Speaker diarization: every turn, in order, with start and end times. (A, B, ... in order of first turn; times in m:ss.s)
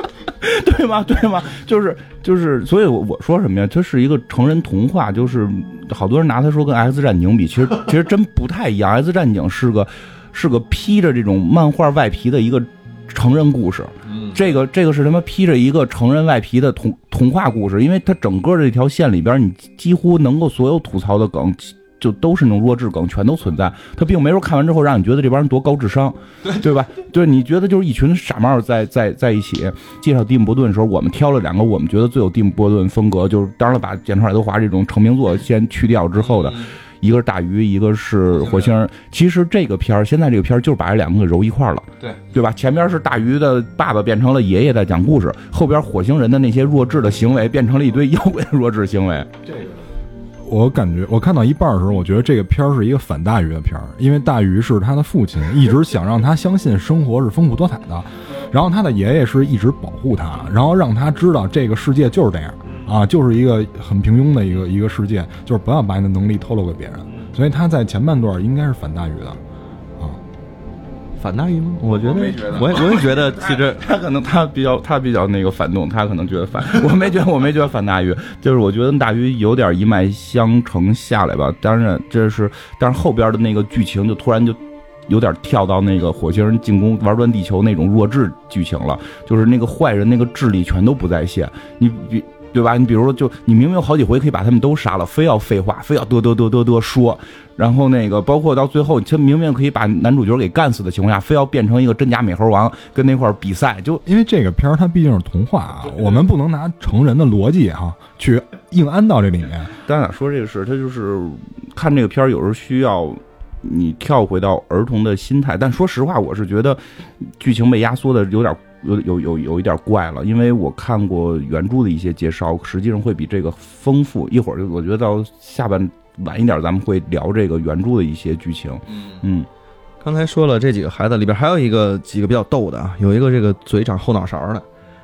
0:00.3-0:49.3 A
0:14.0-0:14.4 B
0:36.2-0:36.8 B
0:38.3-0:38.7 B
0:49.5-0:49.8 C
0:50.4-1:09.4 C
1:11.2-1:13.8 B
1:11.9-1:44.0 A
1:44.0-1:49.8 C
1:49.8-2:09.5 A
2:08.9-2:09.2 B
2:10.0-2:14.6 B